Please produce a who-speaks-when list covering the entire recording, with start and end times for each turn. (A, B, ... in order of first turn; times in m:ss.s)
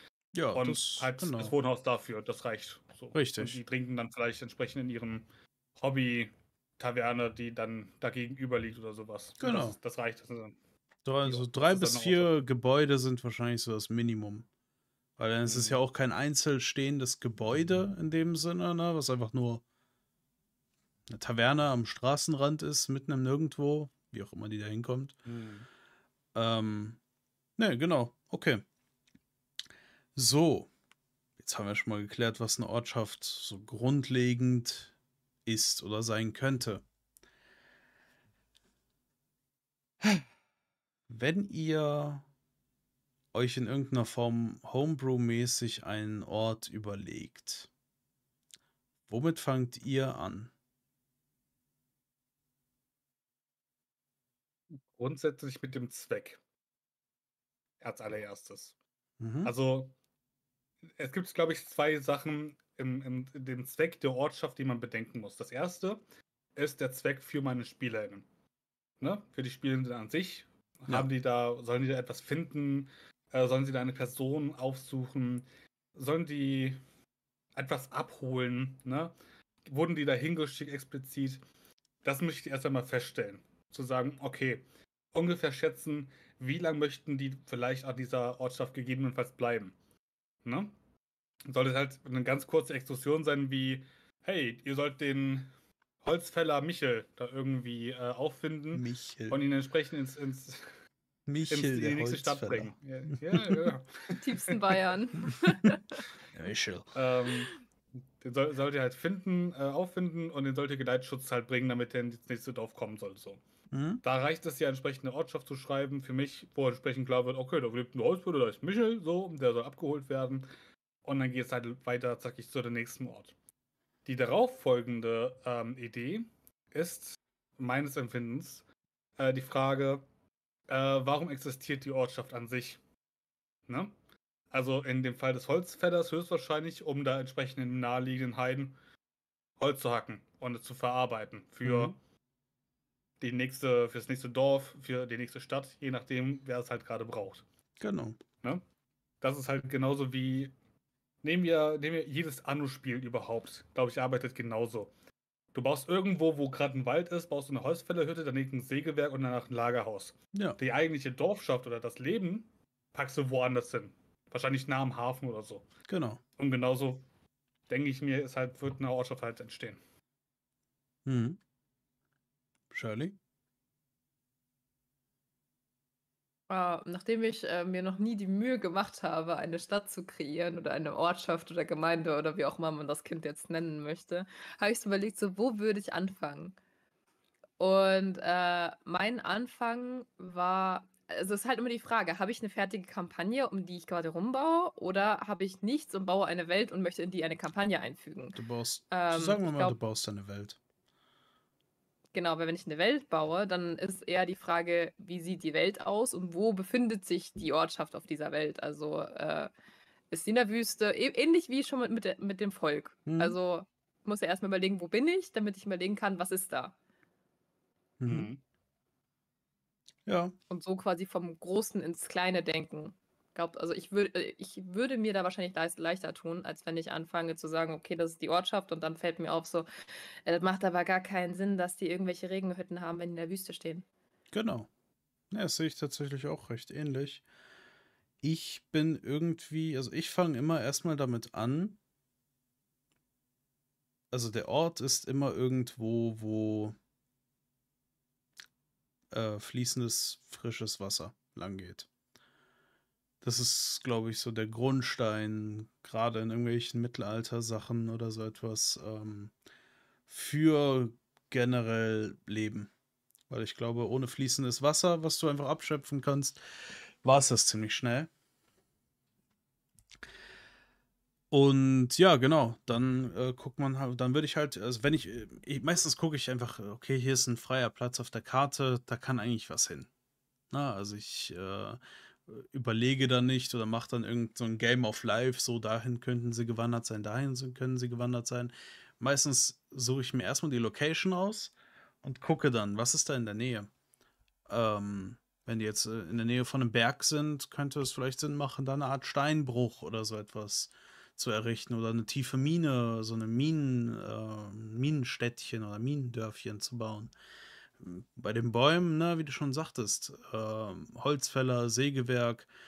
0:00.3-0:01.5 A
0:00.6-0:05.3 B
0:03.1-0:03.6 A
0:05.8-0:10.6 B
0:09.4-0:09.8 A
0:11.0-0:14.5 A
0:11.2-0:12.3 B
0:15.2-0:19.6 A
0:15.4-0:15.8 B
0:21.1-0:25.2 A
0:25.3-0:25.7 B
0:26.3-0:27.0 A
0:27.6-0:28.6 A
0:30.2-0:30.7 A
0:31.4-0:34.9 A
0:35.5-0:36.8 A
0:41.1-0:42.2 A
0:43.3-0:47.7 A
0:49.1-0:50.5 A
0:54.9-0:56.4 B
0:57.8-0:58.8 B
0:59.2-0:59.5 A
0:59.4-0:59.9 B
1:01.0-1:06.0 B
1:06.6-1:08.3 B
1:09.0-1:16.8 B
1:17.6-1:19.1 B
1:19.7-1:21.4 B
1:22.0-1:29.7 B
1:30.4-1:30.7 B
1:31.5-1:35.5 B
1:36.0-1:40.8 B
1:38.7-1:39.4 A
1:41.3-1:43.7 A
1:41.5-1:44.6 B
1:44.2-1:45.8 C
1:46.3-1:47.0 A
1:47.0-1:47.5 B
1:48.2-1:53.4 B
1:53.7-1:54.0 A
1:54.0-2:00.5 B
2:01.0-2:03.3 B
2:04.1-2:08.6 B
2:09.2-2:10.0 B
2:10.7-2:12.8 B
2:13.7-2:13.9 B
2:14.5-2:18.8 B
2:19.6-2:22.0 B
2:21.6-2:21.9 A
2:23.2-2:27.4 B
2:27.8-2:28.2 A
2:29.2-2:30.5 B
2:31.2-2:34.9 B
2:35.5-2:45.7 B
2:40.3-2:40.6 A
2:45.9-2:46.2 A
2:46.4-2:47.0 B
2:47.7-2:49.8 B
2:51.1-2:51.4 A
2:52.7-2:53.2 A
2:56.5-3:06.6 C
3:07.6-3:18.4 C
3:18.4-3:20.6 A
3:18.9-3:19.8 C
3:22.1-3:29.5 C
3:30.1-3:36.8 C
3:33.1-3:33.4 A
3:38.0-3:38.3 A
3:38.1-3:38.4 B
3:40.1-3:40.4 A
3:40.5-3:49.7 C
3:50.2-3:53.9 C
3:54.3-3:54.7 A
3:55.3-3:57.2 A
3:58.2-4:01.8 A
4:04.1-4:06.8 A
4:09.1-4:11.9 A
4:13.2-4:19.3 A
4:20.1-4:22.7 A
4:23.3-4:26.4 A
4:27.0-4:28.1 A
4:31.3-4:39.9 A
4:40.5-4:53.7 A
4:54.5-5:07.1 A
5:07.8-5:12.5 A